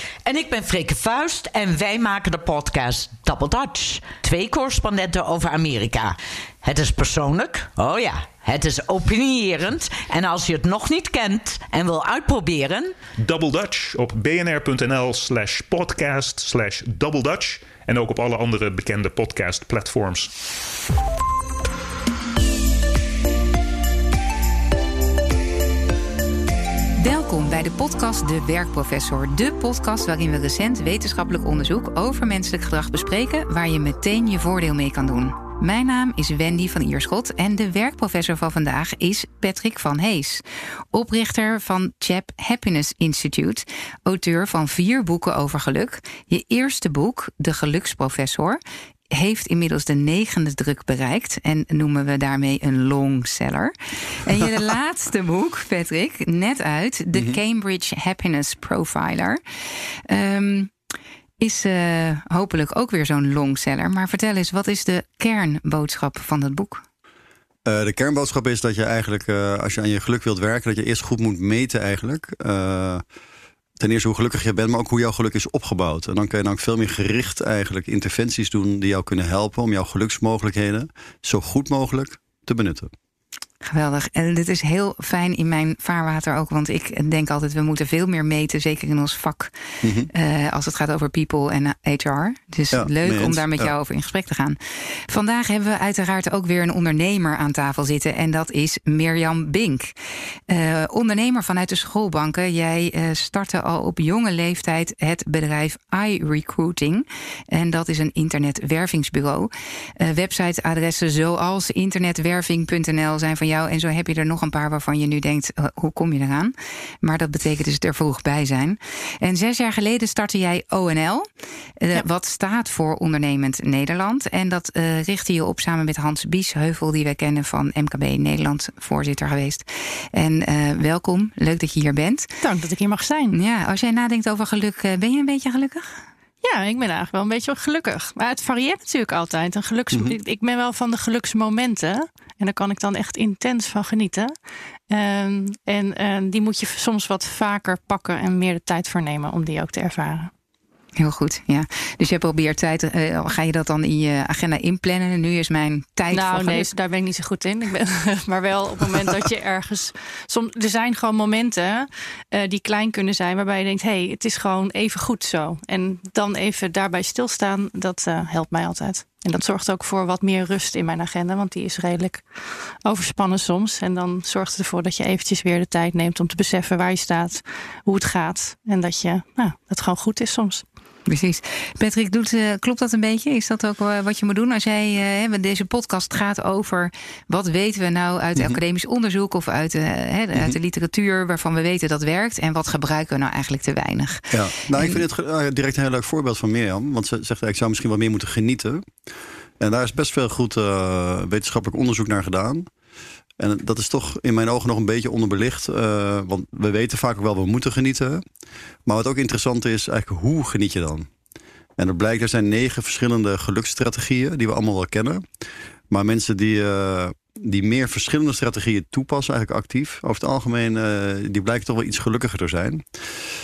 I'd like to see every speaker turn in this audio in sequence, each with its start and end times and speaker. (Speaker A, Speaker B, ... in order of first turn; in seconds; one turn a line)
Speaker A: 0.2-13.0
Speaker B: 13.2-20.3
Speaker C: 27.0-40.4
Speaker C: 40.9-48.6
Speaker C: 49.1-59.4
Speaker C: 60.1-60.7
Speaker C: 61.4-66.8
Speaker D: 67.7-73.0
Speaker D: 73.8-82.9
Speaker C: 83.6-100.0
Speaker D: 89.8-90.1
Speaker D: 92.7-93.7
Speaker C: 100.5-121.3
Speaker C: 121.8-132.3
Speaker E: 132.4-133.3
Speaker C: 133.3-136.0
Speaker E: 136.4-144.3
Speaker E: 144.9-150.3
Speaker C: 151.0-156.7
Speaker E: 156.1-180.6
Speaker C: 181.1-195.0
Speaker D: 194.3-198.9
Speaker D: 199.6-202.7
Speaker D: 203.4-208.2
Speaker D: 208.9-211.1
Speaker D: 211.8-215.2
Speaker D: 215.9-222.8